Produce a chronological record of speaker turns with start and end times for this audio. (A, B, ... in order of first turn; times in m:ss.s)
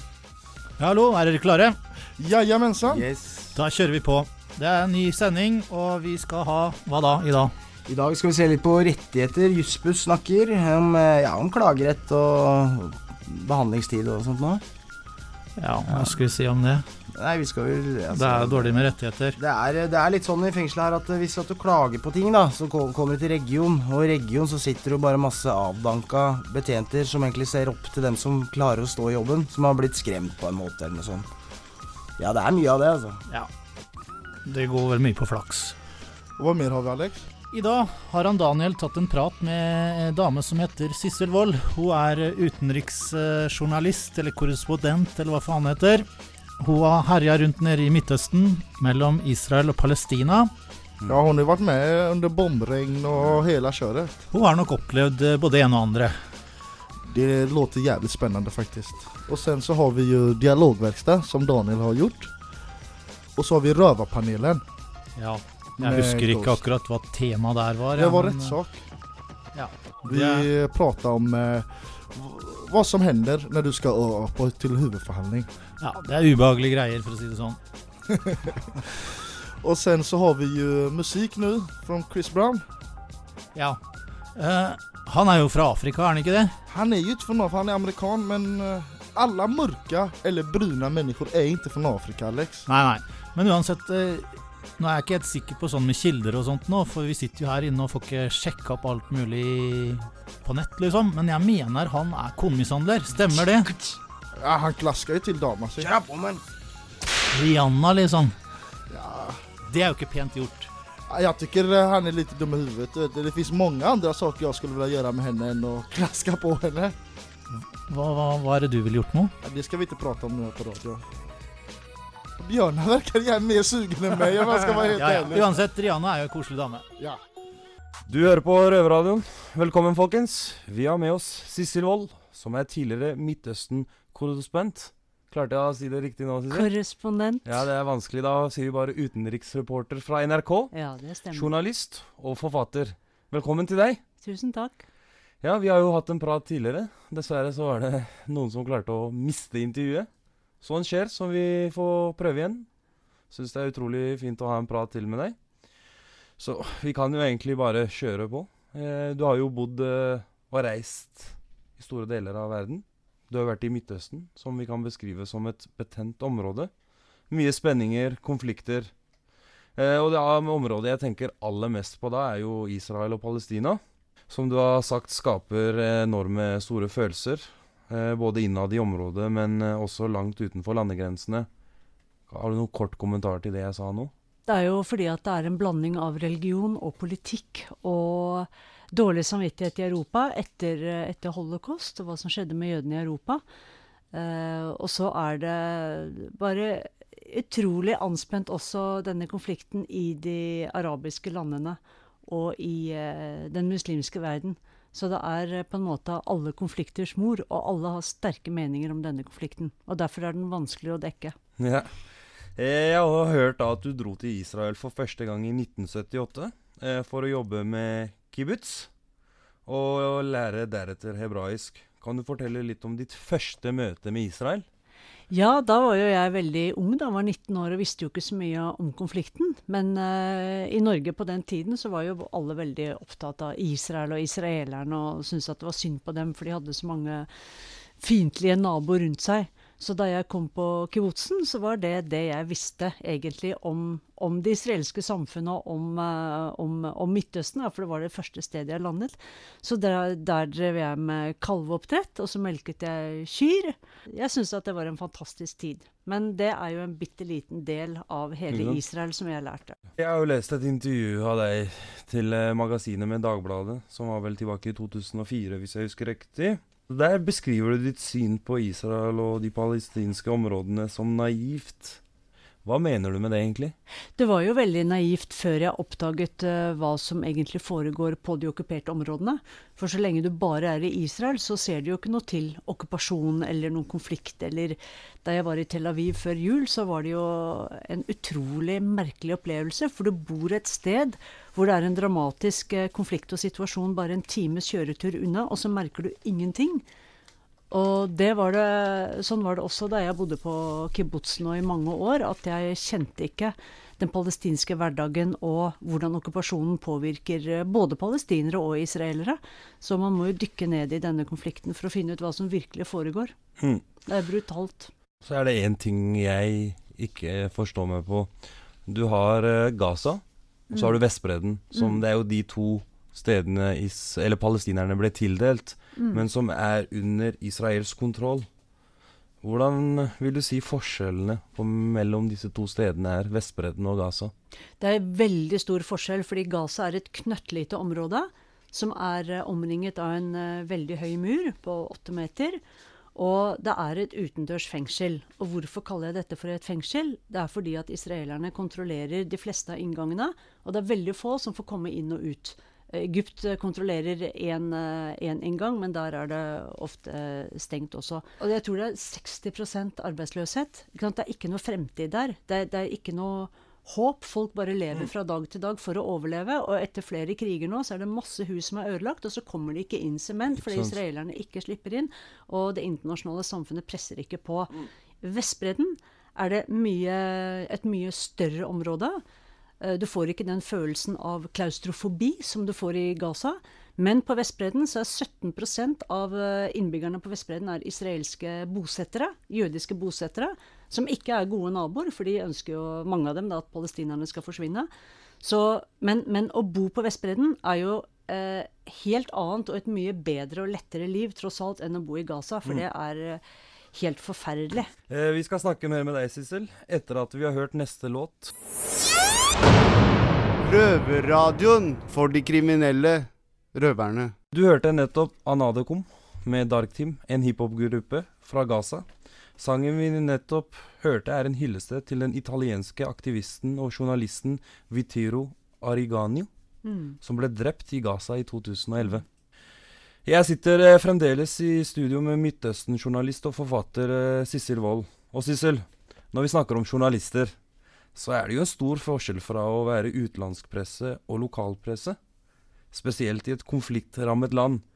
0:00.8-0:01.8 A
0:02.2-0:03.1 B
0:02.8-0:03.5 C
0:03.5-0:07.5 A
0:07.9-0:14.6 C
0:15.6-0:16.8 A
0:15.9-0:16.2 C
0:17.2-0:31.3 C
0:18.1-0:19.4 A
0:32.2-0:33.2 C
0:34.4-0:35.8 A
0:36.4-0:37.3 B
0:37.5-0:46.1 A
0:46.6-0:50.5 A
0:51.1-0:54.3 B
0:54.3-0:56.2 A
0:57.1-1:02.3 B
1:03.4-1:04.6 B
1:05.2-1:08.6 A
1:05.8-1:06.6 B
1:08.0-1:08.8 B
1:09.6-1:10.5 A
1:10.1-1:15.5 B
1:15.8-1:17.6 A
1:18.1-1:22.7 B
1:23.6-1:23.8 A
1:24.4-1:26.6 A
1:26.7-1:32.7 B
1:32.7-1:43.7 A
1:44.4-1:45.9 B
1:45.8-1:46.4 C
1:47.3-1:48.4 A
1:48.9-1:49.4 B
1:49.7-1:50.7 A
1:51.1-1:57.0 B
1:57.5-1:59.3 A
1:59.4-2:01.0 B
2:02.4-2:05.5 B
2:04.9-2:06.9 A
2:08.1-2:16.7 D
2:16.5-2:17.6 E
2:17.4-2:20.7 D
2:20.7-2:21.5 E
2:21.3-2:24.0 D
2:24.2-2:24.8 E
2:25.4-2:30.1 D
2:30.6-2:32.7 D
2:33.3-2:35.4 D
2:36.4-2:46.7 D
2:47.3-2:48.9 D
2:49.8-3:01.5 D
3:02.3-3:04.1 D
3:04.5-3:13.4 E
3:14.1-3:31.4 E
3:31.6-3:32.0 D
3:32.6-3:38.9 D
3:39.7-3:44.6 D
3:45.3-3:57.3 E
3:58.0-4:19.8 E
4:18.5-4:18.8 D
4:20.0-4:32.0 D
4:32.6-4:33.8 D
4:34.2-4:56.8 E
4:57.7-5:13.3 E
5:14.1-5:14.9 E
5:15.2-5:18.3 D
5:18.9-5:28.5 D
5:20.7-5:21.0 E
5:26.0-5:26.2 E
5:29.4-5:34.3 D
5:34.8-5:42.6 E
5:43.2-6:19.2 E
6:10.6-6:11.0 D
6:19.8-6:34.9 E
6:35.4-6:43.4 E
6:43.9-6:44.9 E
6:45.1-6:48.5 D
6:50.6-6:54.3 F
6:54.5-6:59.0 D
6:59.6-7:06.5 D
7:06.8-7:07.2 E
7:07.2-7:09.2 D
7:10.2-7:17.5 D
7:18.2-7:22.2 D
7:22.9-7:24.8 D